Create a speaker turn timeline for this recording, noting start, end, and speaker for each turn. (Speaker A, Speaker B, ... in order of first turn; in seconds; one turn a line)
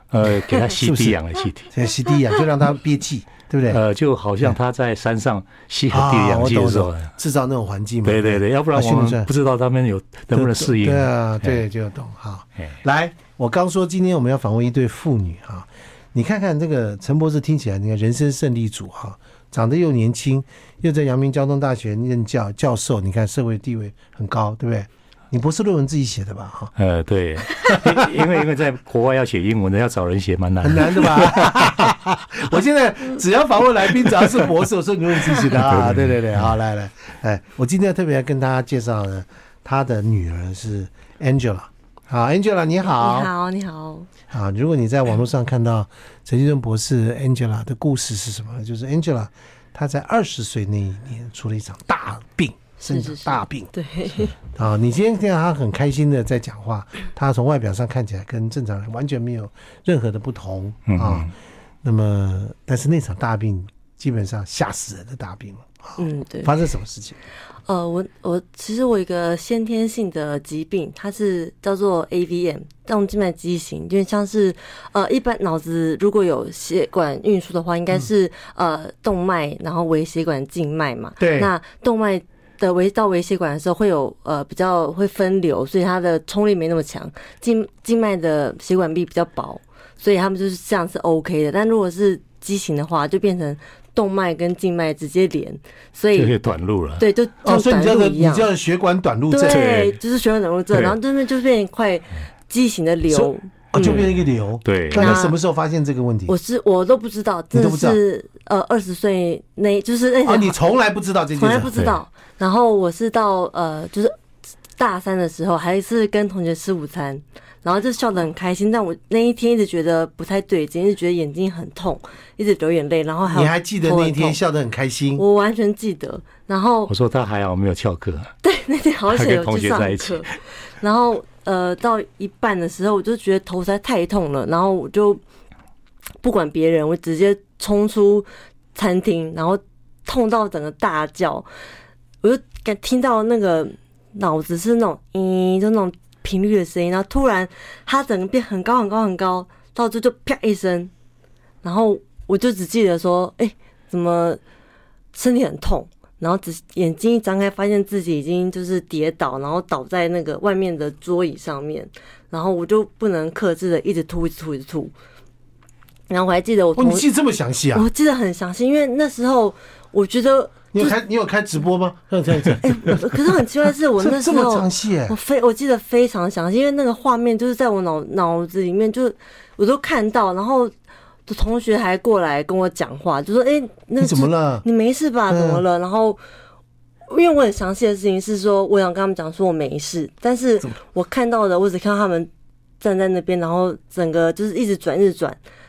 Speaker A: 0.1-1.7
Speaker B: 0.7-3.8
Speaker A: 3.7-7.1
Speaker B: 5.9-9.3
Speaker A: 8.1-11.6
Speaker B: 10.3-26.7
Speaker A: 26.8-31.9
Speaker B: 30.6-43.3
Speaker A: 35.5-36.5
Speaker C: 42.9-44.1
Speaker B: 44.3-61.3
Speaker C: 52.8-54.3
Speaker A: 60.9-61.3
Speaker B: 61.8-67.2
Speaker C: 66.0-66.5
Speaker C: 67.7-98.5
Speaker B: 81.2-81.5
Speaker A: 96.2-97.0
Speaker B: 97.4-99.6
Speaker C: 99.3-104.0
Speaker A: 99.5-100.0
Speaker B: 103.1-106.3
Speaker A: 103.8-105.3
Speaker C: 105.0-105.3
Speaker C: 106.3-110.6
Speaker B: 107.5-108.0
Speaker B: 110.2-111.7
Speaker C: 111.4-114.2
Speaker C: 114.8-124.4
Speaker B: 123.3-125.2
Speaker C: 125.2-126.9
Speaker A: 126.9-128.3
Speaker C: 128.4-135.2
Speaker A: 129.1-130.4
Speaker C: 136.2-141.5
Speaker C: 142.2-150.9
Speaker C: 151.6-154.4
Speaker C: 155.1-164.9
Speaker C: 166.1-167.1
Speaker B: 166.8-167.9
Speaker C: 167.7-170.9
Speaker B: 170.7-173.2
Speaker C: 172.6-180.7
Speaker B: 174.0-175.2
Speaker C: 181.3-186.2
Speaker B: 184.0-184.7
Speaker B: 185.3-185.6
Speaker C: 187.1-192.3
Speaker C: 192.8-195.4